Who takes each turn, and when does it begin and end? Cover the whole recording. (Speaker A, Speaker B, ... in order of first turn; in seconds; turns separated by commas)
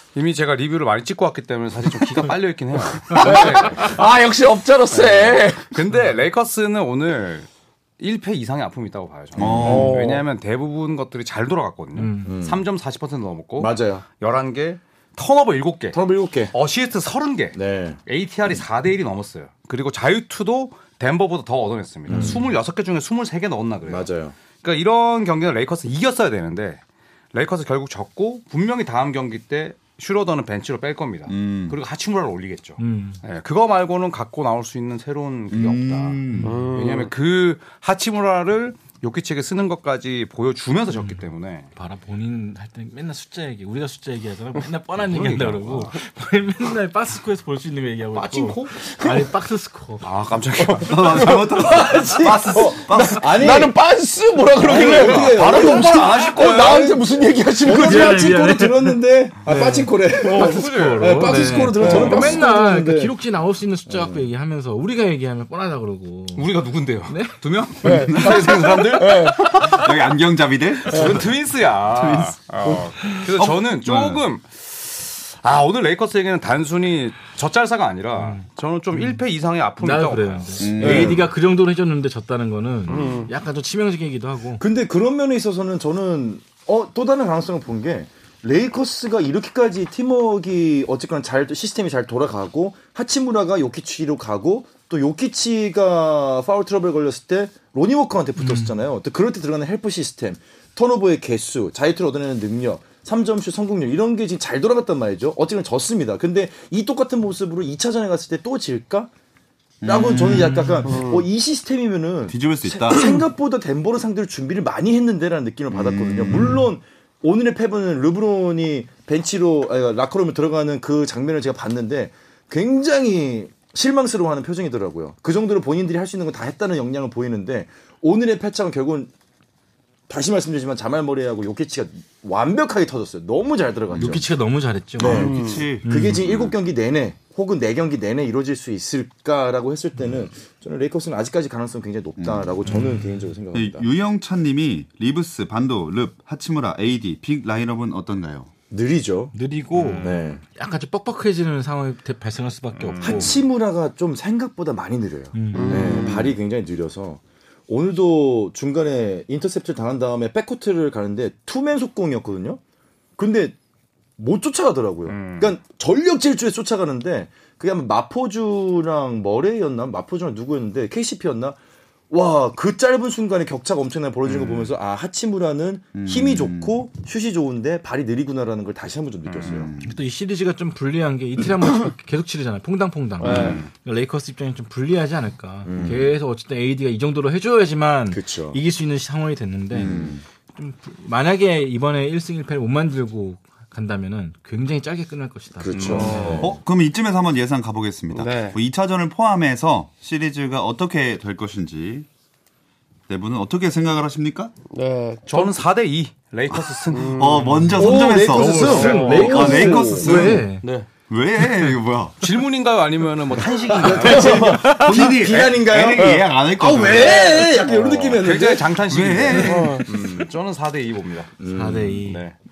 Speaker A: 0.1-4.0, Speaker B: 3.1-5.7, Speaker A: 4.9-7.5, Speaker A: 8.0-26.8, Speaker C: 9.4-10.0, Speaker D: 9.4-9.6, Speaker B: 9.6-10.2, Speaker E: 12.0-12.3, Speaker D: 12.2-12.6, Speaker D: 13.6-14.0, Speaker D: 15.9-16.5, Speaker D: 17.6-18.0, Speaker E: 22.1-22.4, Speaker D: 22.1-22.4, Speaker D: 23.9-24.3, Speaker A: 27.3-41.7, Speaker C: 31.3-31.8, Speaker E: 32.8-33.2, Speaker C: 35.5-36.6, Speaker B: 36.4-37.1, Speaker E: 40.9-41.2, Speaker E: 41.8-50.1, Speaker A: 45.0-45.9, Speaker A: 48.1-48.7, Speaker B: 48.8-49.3, Speaker A: 50.0-51.2, Speaker B: 50.6-58.3, Speaker C: 50.8-53.5, Speaker D: 51.6-53.8, Speaker D: 54.6-57.0, Speaker A: 54.6-56.8, Speaker D: 57.6-63.1, Speaker E: 57.7-66.5, Speaker A: 60.3-61.3, Speaker B: 60.3-60.7, Speaker B: 61.8-62.5, Speaker D: 63.9-64.3, Speaker A: 66.3-69.8, Speaker E: 67.1-67.4, Speaker B: 67.8-69.5, Speaker C: 67.8-71.3, Speaker A: 70.8-81.0, Speaker B: 70.9-71.2, Speaker C: 71.9-72.4, Speaker C: 73.1-74.2, Speaker E: 78.2-78.4, Speaker E: 79.8-84.6, Speaker C: 80.6-81.3, Speaker B: 82.9-83.3, Speaker D: 84.6-109.1, Speaker E: 98.4-98.8, Speaker C: 109.8-110.8, Speaker D: 109.8-129.1, Speaker E: 110.3-110.9, Speaker B: 110.9-111.2, Speaker C: 112.3-113.2, Speaker C: 115.7-116.6, Speaker D: 130.1-134.3, Speaker E: 133.9-135.3, Speaker D: 135.0-143.9, Speaker C: 135.0-136.5, Speaker B: 135.1-135.7, Speaker E: 135.8-136.2, Speaker C: 142.2-142.8, Speaker E: 142.7-142.9, Speaker C: 143.5-148.5, Speaker D: 148.7-149.3, Speaker E: 149.3-153.4, Speaker A: 149.8-150.2, Speaker D: 150.0-150.4, Speaker A: 152.8-153.4, Speaker D: 153.0-162.6, Speaker E: 155.3-156.1, Speaker B: 155.5-156.3, Speaker D: 163.2-163.6, Speaker D: 164.2-171.6, Speaker A: 165.1-165.6, Speaker D: 172.1-179.7, Speaker C: 174.3-174.7, Speaker C: 175.9-176.8, Speaker A: 179.2-179.7, Speaker C: 179.4-180.0, Speaker E: 179.8-196.4, Speaker B: 183.2-183.6, Speaker A: 183.2-183.7, Speaker D: 185.7-186.1, Speaker D: 188.1-188.6, Speaker C: 189.7-190.2, Speaker D: 189.8-190.2, Speaker D: 195.6-196.6, Speaker A: 195.7-196.2, Speaker B: 195.9-196.5, Speaker C: 196.4-202.1, Speaker B: 198.1-198.6, Speaker C: 203.1-204.5, Speaker B: 204.7-205.6, Speaker A: 205.3-207.3, Speaker B: 206.9-207.5, Speaker C: 207.1-210.5, Speaker E: 207.3-210.7, Speaker D: 207.8-210.7, Speaker B: 208.6-210.2, Speaker C: 211.1-212.2, Speaker A: 212.2-215.1, Speaker D: 213.7-218.8, Speaker B: 213.9-215.0, Speaker C: 214.0-217.5, Speaker B: 216.0-216.3, Speaker A: 216.8-217.4, Speaker B: 216.9-218.1, Speaker A: 218.1-221.3, Speaker C: 218.9-219.9, Speaker B: 219.4-219.9, Speaker D: 221.4-222.0, Speaker E: 221.5-222.2, Speaker A: 222.0-222.3